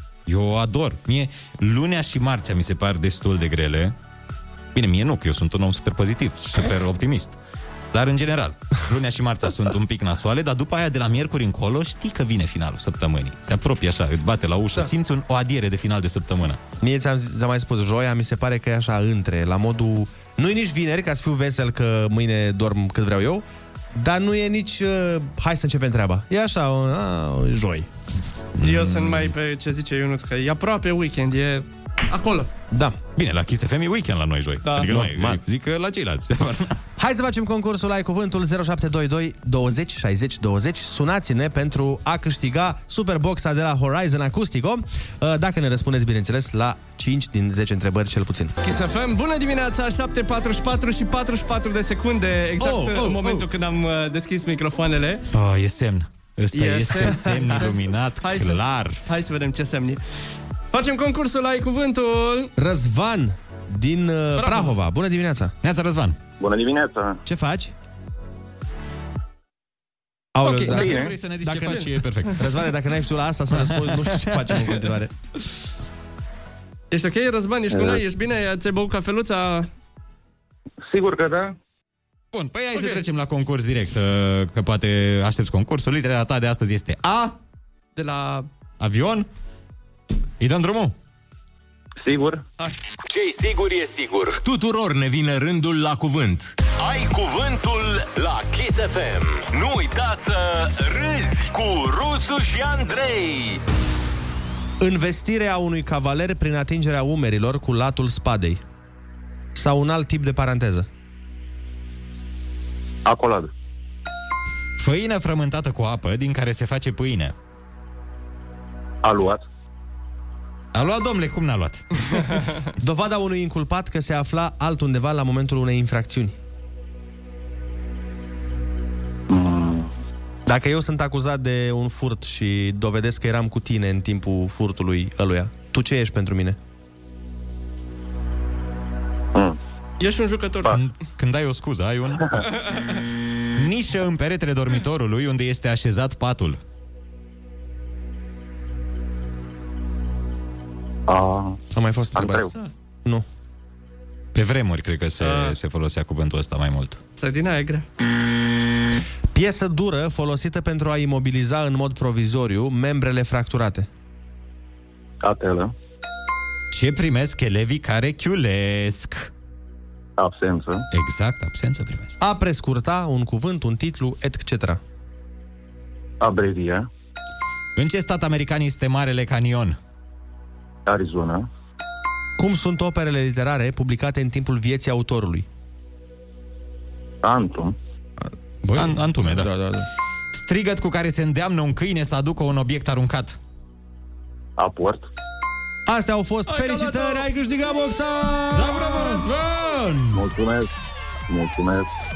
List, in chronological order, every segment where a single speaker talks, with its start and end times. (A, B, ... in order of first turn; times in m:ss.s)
0:00.3-0:04.0 A
0:04.8-0:07.4 A
0:07.9-0:16.6 A
0:16.8-0:27.9 B
0:28.6-0:29.3 A
0:28.6-0:32.5 C
0:32.7-0:33.0 B
0:33.2-0:36.8 A
0:34.6-0:34.9 C
0:34.8-0:35.4 B
0:37.0-0:48.6 B
0:48.6-0:55.2 C
0:52.6-0:53.4 B
0:55.3-0:59.0 A
0:56.5-1:00.0 C
1:00.7-1:02.5 C
1:02.6-1:05.5 B
1:04.4-1:04.7 C
1:05.6-1:06.2 A
1:06.4-1:07.2 D
1:07.2-1:07.7 B
1:10.4-1:15.1 B
1:10.4-1:12.5 A
1:10.8-1:11.1 D
1:13.6-1:14.7 A
1:16.9-1:19.7 C
1:17.7-1:18.0 D
1:20.8-1:21.6 D
1:22.3-1:27.3 A
1:22.7-1:23.0 C
1:28.0-1:28.5 C
1:28.8-1:29.3 A
1:30.4-1:31.0 A
1:32.0-1:32.4 D
1:33.1-1:34.4 E
1:34.4-1:36.5 F
1:36.7-1:43.6 E
1:44.8-1:48.6 B
1:49.6-1:50.9 B
1:53.1-1:53.5 D
1:54.8-1:57.3 A
1:59.0-1:59.4 D
2:00.7-2:01.9 A
2:02.8-2:06.4 B
2:09.3-2:09.9 D
2:10.5-2:16.6 B
2:20.0-2:20.8 C
2:20.7-2:22.5 A
2:22.4-2:23.0 C
2:23.6-2:26.6 A
2:31.1-2:31.6 D
2:31.7-2:32.5 B
2:32.1-2:32.5 D
2:34.4-2:37.0 A
2:35.2-2:35.6 C
2:37.2-2:37.8 C
2:39.3-2:43.9 B
2:45.2-2:45.7 D
2:46.7-2:49.3 A
2:50.2-2:50.8 D
2:50.9-2:52.1 A
2:52.2-2:54.8 B
2:56.2-2:56.9 D
2:57.8-2:59.8 A
3:00.9-3:01.5 D
3:02.4-3:05.5 B
3:07.2-3:07.8 D
3:08.3-3:09.9 B
3:08.7-3:09.5 A
3:10.3-3:13.4 A
3:14.6-3:15.1 D
3:15.9-3:18.8 B
3:16.5-3:17.3 C
3:18.5-3:20.2 A
3:20.1-3:20.7 D
3:21.3-3:21.9 D